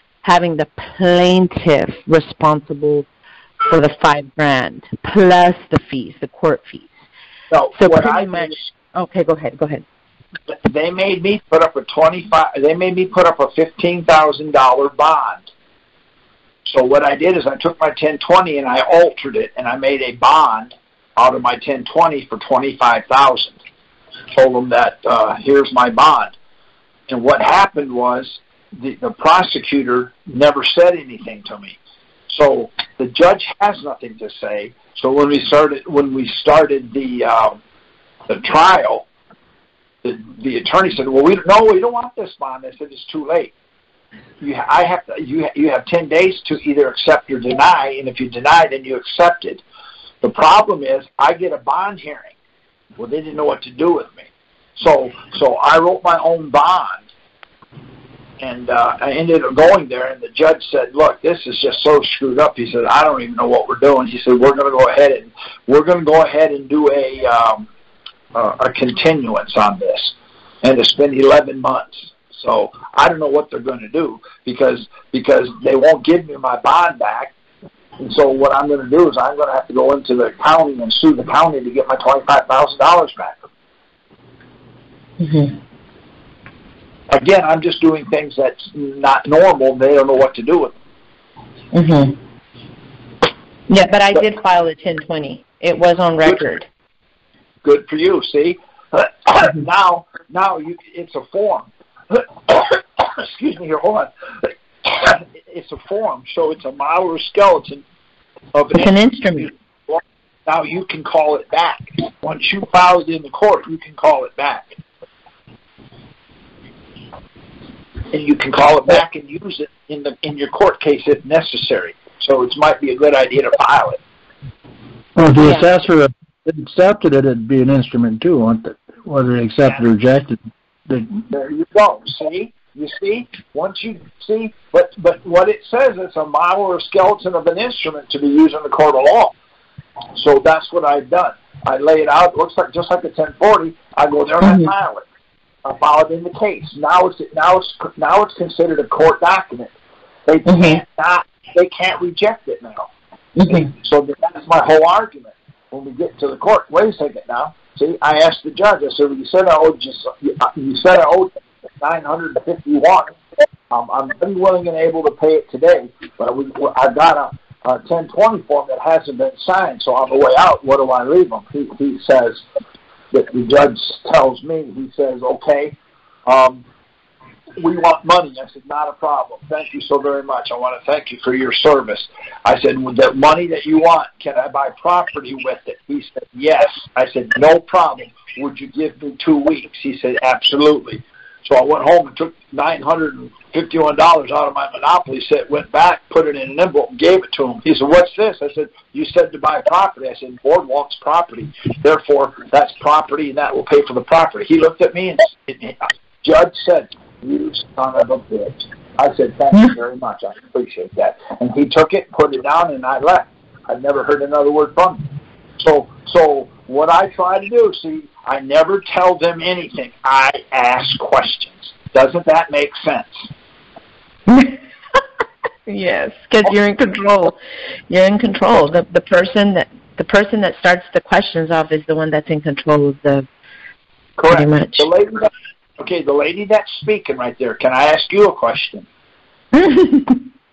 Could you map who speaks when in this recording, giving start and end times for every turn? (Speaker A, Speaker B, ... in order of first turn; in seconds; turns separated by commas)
Speaker A: 0.2-3.1, Speaker A: 3.7-6.9, Speaker B: 7.5-8.6, Speaker A: 7.8-9.8, Speaker B: 10.5-15.5, Speaker B: 16.6-23.6, Speaker B: 24.3-26.3, Speaker B: 27.1-31.8, Speaker B: 32.3-37.6, Speaker B: 38.3-39.0, Speaker B: 40.0-43.5, Speaker B: 44.4-49.6, Speaker B: 50.2-52.3, Speaker B: 53.0-57.0, Speaker B: 58.4-67.7, Speaker B: 68.3-77.3, Speaker B: 78.0-83.4, Speaker A: 85.2-85.6, Speaker B: 87.1-90.7, Speaker A: 91.7-92.2, Speaker A: 93.7-96.7, Speaker B: 97.6-107.8, Speaker B: 108.5-114.7, Speaker A: 108.7-109.5, Speaker B: 118.1-124.0, Speaker C: 125.2-131.2, Speaker A: 125.4-125.7, Speaker B: 131.3-139.3, Speaker B: 140.1-145.0, Speaker A: 144.4-144.7, Speaker B: 145.6-149.7, Speaker B: 150.3-152.9, Speaker A: 150.4-150.8, Speaker A: 153.3-153.7, Speaker B: 153.5-163.1, Speaker B: 163.7-172.4, Speaker B: 173.1-176.6, Speaker B: 177.6-215.0, Speaker B: 215.6-223.3, Speaker A: 224.3-225.0, Speaker A: 225.7-227.4, Speaker A: 227.9-233.3, Speaker B: 234.2-238.8, Speaker A: 234.3-234.9, Speaker A: 239.5-240.2